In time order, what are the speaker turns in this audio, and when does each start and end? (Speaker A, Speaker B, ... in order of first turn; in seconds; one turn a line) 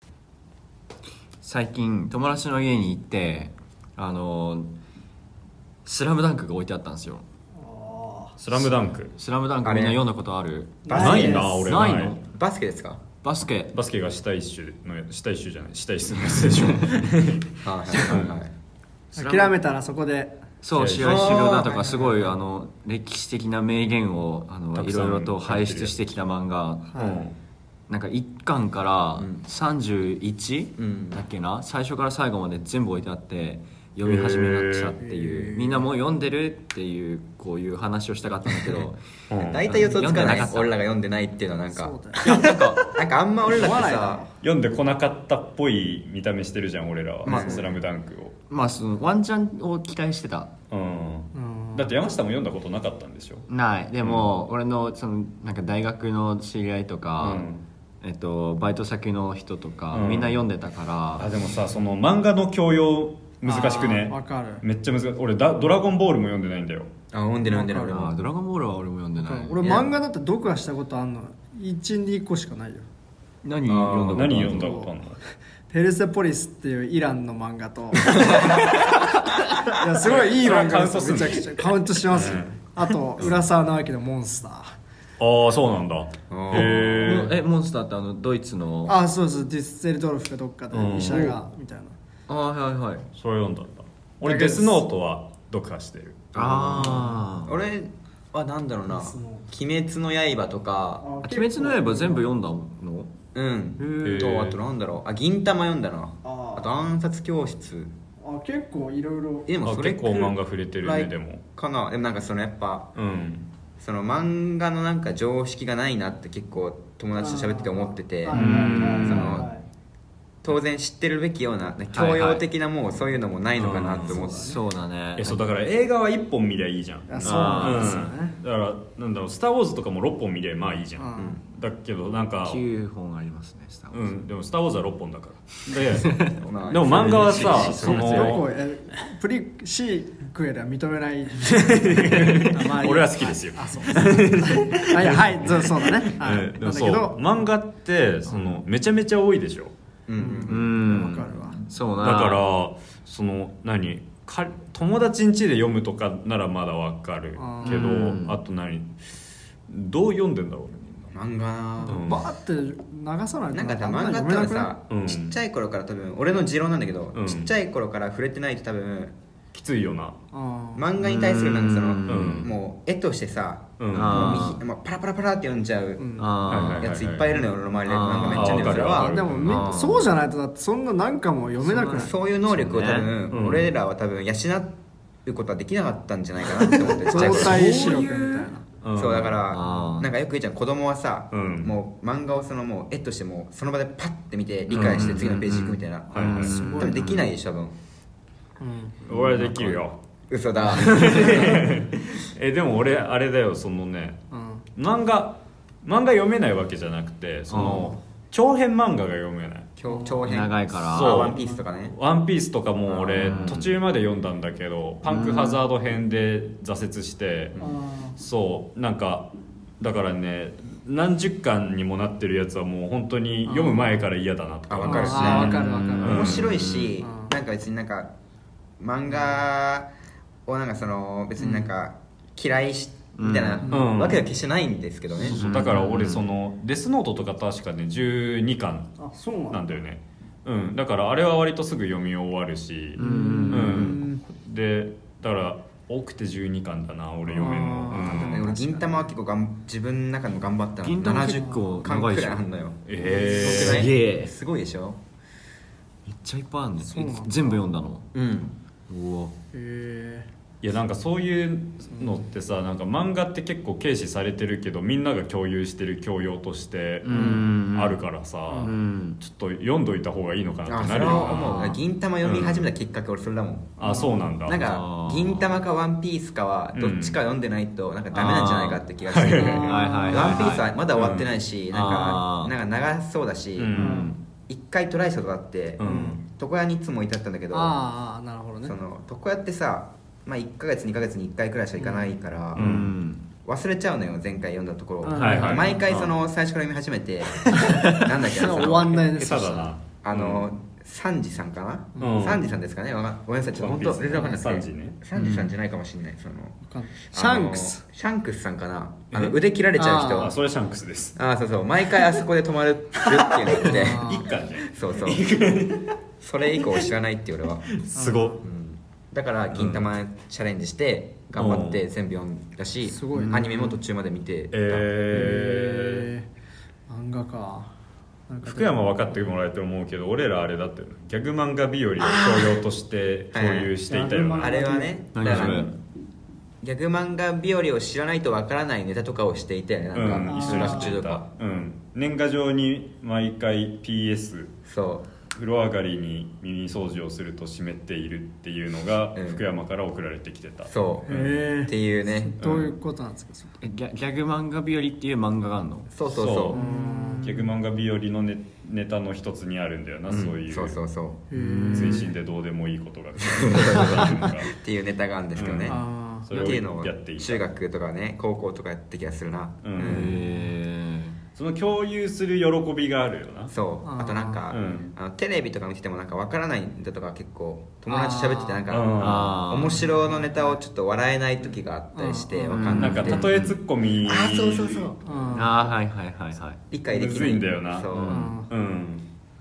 Speaker A: 1.4-4.7
Speaker A: 5.8-7.2
Speaker B: 7.5-8.4
Speaker C: 8.4-9.1
Speaker A: 8.5-10.8
Speaker D: 9.6-10.1
Speaker D: 10.8-11.6
Speaker B: 10.8-11.7
Speaker C: 10.9-12.2
Speaker A: 11.7-12.2
Speaker D: 12.2-13.0
Speaker A: 13.2-13.7
Speaker C: 13.7-18.3
Speaker D: 17.6-18.5
Speaker B: 19.1-20.4
Speaker A: 19.1-19.5
Speaker A: 20.6-26.9
Speaker C: 20.7-21.5
Speaker B: 21.0-22.3
Speaker D: 21.1-22.1
Speaker C: 24.7-25.9
Speaker B: 26.9-27.2
Speaker C: 27.0-27.3
Speaker A: 27.9-40.8
Speaker D: 29.2-29.4
Speaker D: 30.8-31.2
Speaker C: 34.0-35.0
Speaker B: 35.0-35.9
Speaker C: 39.3-39.7
Speaker D: 39.4-44.2
Speaker B: 41.7-42.4
Speaker A: 42.2-42.9
Speaker B: 43.5-44.3
Speaker C: 44.4-48.3
Speaker D: 47.2-47.7
Speaker A: 47.2-47.8
Speaker A: 48.5-50.5
Speaker C: 50.7-53.5
Speaker B: 51.3-51.9
Speaker A: 53.5-57.4
Speaker C: 54.0-54.3
Speaker C: 57.2-57.6
Speaker A: 58.0-61.3
Speaker C: 59.9-60.4
Speaker C: 61.2-66.9
Speaker B: 63.4-64.6
Speaker D: 67.1-68.2
Speaker B: 67.5-68.0
Speaker A: 67.9-69.9
Speaker B: 69.2-72.8
Speaker A: 73.4-74.8
Speaker D: 73.7-74.3
Speaker C: 73.7-75.2
Speaker B: 74.5-74.9
Speaker B: 75.7-84.8
Speaker C: 80.0-83.4
Speaker C: 85.2-87.3
Speaker D: 86.3-87.3
Speaker A: 86.5-89.0
Speaker B: 88.8-92.0
Speaker C: 90.7-91.3
Speaker A: 92.3-93.0
Speaker C: 93.1-96.3
Speaker B: 94.2-94.8
Speaker D: 96.3-101.0
Speaker A: 96.3-97.6
Speaker B: 98.9-99.5
Speaker B: 101.0-102.3
Speaker A: 101.2-103.1
Speaker D: 103.3-107.9
Speaker A: 103.8-104.3
Speaker C: 104.0-104.6
Speaker B: 106.2-106.7
Speaker B: 108.2-109.5
Speaker D: 109.5-112.9
Speaker C: 109.6-111.4
Speaker C: 112.9-113.5
Speaker D: 113.8-119.5
Speaker B: 117.2-119.6
Speaker C: 118.3-119.4
Speaker A: 118.3-119.3
Speaker D: 120.4-124.5
Speaker A: 121.9-122.4
Speaker C: 123.6-124.2
Speaker A: 123.9-125.4
Speaker B: 124.0-124.5
Speaker C: 125.1-132.6
Speaker B: 127.1-128.4
Speaker A: 127.2-128.1
Speaker B: 131.0-131.4
Speaker A: 132.4-134.2
Speaker C: 133.9-138.5
Speaker A: 135.9-136.3
Speaker D: 136.4-137.8
Speaker A: 136.9-138.5
Speaker B: 137.8-147.2
Speaker C: 141.4-149.7
Speaker B: 148.3-148.6
Speaker D: 150.1-150.8
Speaker B: 150.2-151.6
Speaker A: 150.4-152.4
Speaker C: 152.0-159.0
Speaker B: 157.4-157.9
Speaker A: 157.6-158.4
Speaker C: 159.7-161.1
Speaker D: 161.1-162.0
Speaker B: 161.8-164.7
Speaker C: 161.8-162.3
Speaker D: 163.5-169.2
Speaker C: 164.9-165.4
Speaker C: 167.1-167.5
Speaker C: 169.5-170.2
Speaker B: 170.3-170.9
Speaker D: 170.7-180.0
Speaker A: 171.0-172.5
Speaker C: 172.1-172.5
Speaker C: 173.8-174.5
Speaker A: 173.9-174.6
Speaker B: 176.0-176.3
Speaker A: 176.2-176.9
Speaker C: 176.4-177.3
Speaker A: 177.8-179.0
Speaker C: 178.3-179.7
Speaker B: 178.8-182.1
Speaker A: 179.5-179.9
Speaker D: 181.7-187.9
Speaker A: 182.4-183.1
Speaker C: 183.3-183.7
Speaker B: 186.7-188.6
Speaker A: 187.1-188.5
Speaker C: 188.8-189.4
Speaker D: 188.9-197.7
Speaker A: 189.5-190.1
Speaker B: 189.6-190.0
Speaker C: 191.3-191.7
Speaker C: 194.7-195.2
Speaker A: 194.7-197.3
Speaker C: 196.1-196.5
Speaker B: 196.5-197.1
Speaker B: 198.6-199.0
Speaker A: 199.1-199.8
Speaker C: 199.1-200.0
Speaker D: 200.3-201.6
Speaker C: 200.7-204.2
Speaker A: 200.8-201.2
Speaker B: 204.3-204.6
Speaker C: 204.8-209.7
Speaker A: 207.5-207.9
Speaker B: 207.6-207.9
Speaker D: 209.8-211.9
Speaker B: 209.9-210.2
Speaker A: 210.2-211.3
Speaker C: 210.9-217.6
Speaker A: 212.9-213.8
Speaker D: 213.2-213.6
Speaker A: 215.0-215.6
Speaker B: 217.6-218.2
Speaker C: 218.2-226.8
Speaker B: 223.5-223.9
Speaker D: 224.7-228.1
Speaker B: 224.8-227.3
Speaker A: 225.2-226.8
Speaker D: 228.8-229.9
Speaker D: 230.4-235.4
Speaker A: 231.4-231.7
Speaker A: 233.2-233.7
Speaker B: 233.7-233.9
Speaker C: 233.7-234.2
Speaker C: 235.2-239.0
Speaker A: 235.2-236.2
Speaker B: 239.0-239.7
Speaker C: 239.5-248.5
Speaker A: 242.9-244.0
Speaker B: 243.0-244.2
Speaker B: 247.3-248.9
Speaker D: 248.2-255.0
Speaker A: 250.8-252.4
Speaker C: 252.8-253.9
Speaker B: 253.0-253.4
Speaker A: 253.3-254.3
Speaker A: 256.0-258.1
Speaker B: 256.8-257.6
Speaker D: 258.1-258.6
Speaker A: 258.9-259.3
Speaker B: 259.5-260.3
Speaker C: 260.6-271.5
Speaker B: 261.9-262.2
Speaker A: 267.0-268.0
Speaker D: 267.1-267.4
Speaker B: 268.5-268.7
Speaker A: 268.6-269.2
Speaker D: 270.7-283.8
Speaker B: 271.1-271.7
Speaker A: 271.1-271.7
Speaker C: 272.2-272.6
Speaker C: 273.8-274.6
Speaker B: 273.8-274.2
Speaker A: 274.6-275.6
Speaker C: 276.7-277.2
Speaker A: 278.1-278.8
Speaker C: 279.1-279.8
Speaker A: 279.5-280.7
Speaker B: 279.6-280.5
Speaker C: 280.9-281.3
Speaker A: 281.7-282.5
Speaker C: 283.6-284.1
Speaker A: 283.7-284.1
Speaker B: 283.7-284.1
Speaker D: 284.5-287.8
Speaker C: 285.8-286.2
Speaker B: 285.8-286.2
Speaker B: 287.5-288.8
Speaker D: 288.6-292.8
Speaker B: 291.8-292.1
Speaker C: 292.5-292.9
Speaker A: 292.6-293.2
Speaker D: 293.4-299.0
Speaker B: 295.0-295.8
Speaker C: 295.1-296.1
Speaker B: 297.5-299.7
Speaker C: 298.7-300.5
Speaker D: 300.0-306.6
Speaker B: 302.0-302.3
Speaker C: 302.0-302.5
Speaker C: 303.6-305.0
Speaker A: 305.1-305.5
Speaker B: 306.7-307.8
Speaker D: 307.1-310.4
Speaker C: 309.1-309.4
Speaker B: 309.8-310.3
Speaker C: 310.1-311.1
Speaker D: 311.1-315.3
Speaker B: 313.4-314.3
Speaker C: 313.5-315.9
Speaker D: 316.2-317.7
Speaker C: 317.7-318.4
Speaker B: 317.9-318.4
Speaker D: 318.4-324.9
Speaker C: 319.5-319.9
Speaker C: 321.4-321.8
Speaker B: 322.8-323.8
Speaker C: 324.5-326.1
Speaker B: 325.1-326.3
Speaker B: 326.9-327.7
Speaker B: 328.3-328.8
Speaker C: 328.4-334.6
Speaker D: 332.0-332.5
Speaker D: 333.3-333.7
Speaker B: 333.9-335.1
Speaker D: 334.4-335.7
Speaker A: 335.1-335.7
Speaker C: 335.1-335.8
Speaker D: 336.6-341.2
Speaker C: 339.9-344.5
Speaker B: 340.1-340.9
Speaker D: 344.6-345.1
Speaker C: 345.3-351.4
Speaker D: 349.1-349.4
Speaker D: 350.7-351.1
Speaker B: 351.1-353.5
Speaker D: 351.6-352.5
Speaker C: 352.4-352.7
Speaker A: 353.6-355.9
Speaker D: 355.9-356.6
Speaker C: 356.1-360.8
Speaker B: 356.5-357.5
Speaker A: 360.1-360.3
Speaker D: 360.4-361.2
Speaker B: 361.3-362.1
Speaker A: 361.3-362.1
Speaker C: 361.7-364.5
Speaker D: 363.2-370.2
Speaker C: 365.3-367.4
Speaker B: 365.6-366.3
Speaker C: 369.6-370.2
Speaker A: 369.8-371.2
Speaker C: 371.3-373.5
Speaker D: 373.5-383.3
Speaker B: 373.8-374.4
Speaker C: 374.5-374.9
Speaker B: 377.9-378.6
Speaker C: 378.7-379.4
Speaker A: 379.0-379.9
Speaker B: 379.9-380.6
Speaker B: 381.9-382.9
Speaker A: 382.5-383.6
Speaker C: 382.8-384.9
Speaker D: 384.1-385.3
Speaker B: 385.0-385.7
Speaker A: 385.3-386.6
Speaker D: 386.7-388.3
Speaker C: 386.9-387.9
Speaker A: 387.9-388.4
Speaker B: 388.1-388.5
Speaker C: 388.5-389.1